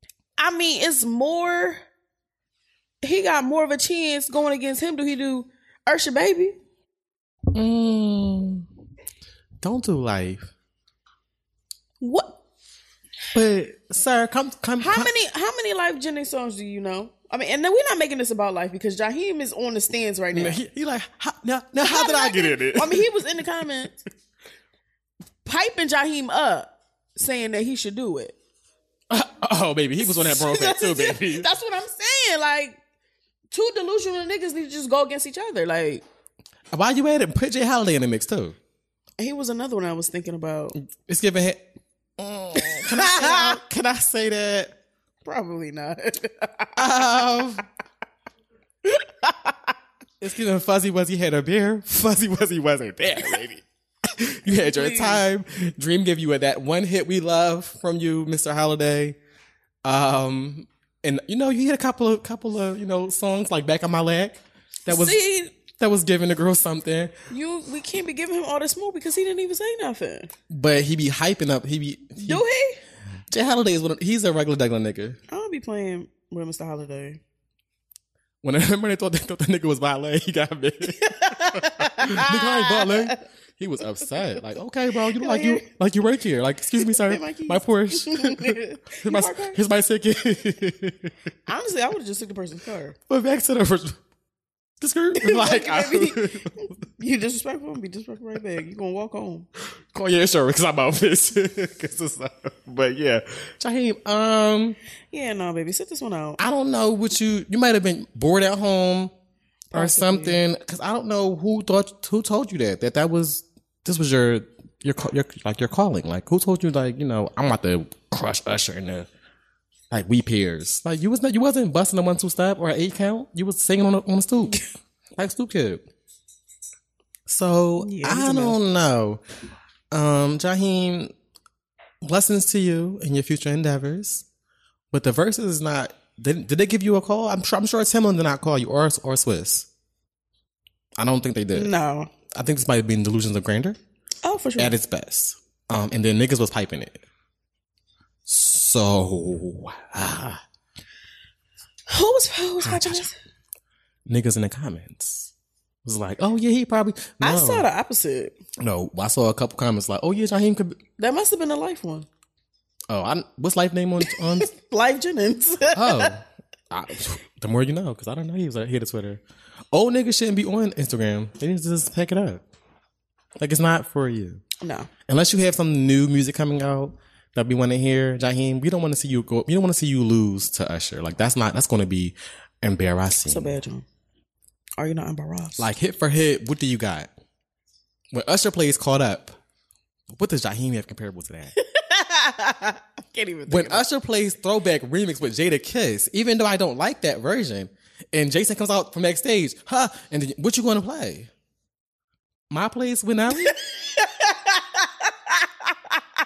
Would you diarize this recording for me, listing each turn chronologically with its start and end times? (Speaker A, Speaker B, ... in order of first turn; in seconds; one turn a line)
Speaker A: 0.4-1.8
Speaker A: 3.0-6.5
Speaker B: 7.5-8.7
Speaker B: 9.6-10.5
Speaker A: 12.0-12.4
Speaker B: 13.3-15.1
Speaker A: 14.8-20.6
Speaker B: 20.3-23.1
Speaker A: 21.8-24.0
Speaker A: 25.4-28.3
Speaker B: 29.1-31.5
Speaker A: 30.0-32.8
Speaker A: 33.5-36.0
Speaker B: 36.7-38.6
Speaker A: 39.2-40.8
Speaker B: 40.8-41.6
Speaker B: 42.2-44.7
Speaker A: 42.5-43.6
Speaker A: 45.2-46.8
Speaker B: 46.8-47.6
Speaker A: 48.9-49.5
Speaker B: 50.2-59.2
Speaker A: 54.5-55.2
Speaker B: 59.8-67.1
Speaker A: 64.9-65.5
Speaker A: 67.3-70.3
Speaker B: 70.5-72.4
Speaker A: 72.2-72.8
Speaker B: 73.3-75.2
Speaker A: 75.3-77.2
Speaker B: 78.4-91.1
Speaker A: 81.0-83.2
Speaker A: 85.2-85.7
Speaker A: 86.8-89.6
Speaker A: 91.5-93.0
Speaker B: 93.1-94.0
Speaker B: 94.8-96.6
Speaker A: 95.1-99.5
Speaker B: 99.9-104.8
Speaker A: 105.1-106.4
Speaker B: 106.4-109.1
Speaker A: 109.7-110.4
Speaker B: 109.7-119.1
Speaker B: 119.9-124.6
Speaker B: 125.2-125.8
Speaker B: 127.3-129.2
Speaker A: 127.8-128.6
Speaker B: 129.9-131.1
Speaker B: 132.0-134.2
Speaker B: 134.9-139.7
Speaker B: 141.0-141.7
Speaker A: 141.5-142.1
Speaker B: 142.3-143.8
Speaker A: 144.2-144.7
Speaker B: 144.6-147.0
Speaker B: 148.2-150.4
Speaker A: 151.9-153.1
Speaker B: 152.6-153.1
Speaker B: 154.1-155.3
Speaker B: 155.8-157.7
Speaker A: 157.2-158.3
Speaker B: 158.6-160.8
Speaker A: 161.0-162.1
Speaker B: 162.9-164.5
Speaker A: 164.1-166.1
Speaker B: 165.7-172.4
Speaker B: 173.4-174.4
Speaker A: 174.6-174.9
Speaker B: 175.1-183.5
Speaker A: 183.2-183.8
Speaker A: 184.8-185.7
Speaker B: 185.6-187.1
Speaker B: 188.1-189.4
Speaker B: 190.1-191.5
Speaker A: 191.6-193.9
Speaker B: 193.5-201.3
Speaker B: 202.5-203.6
Speaker A: 203.4-206.0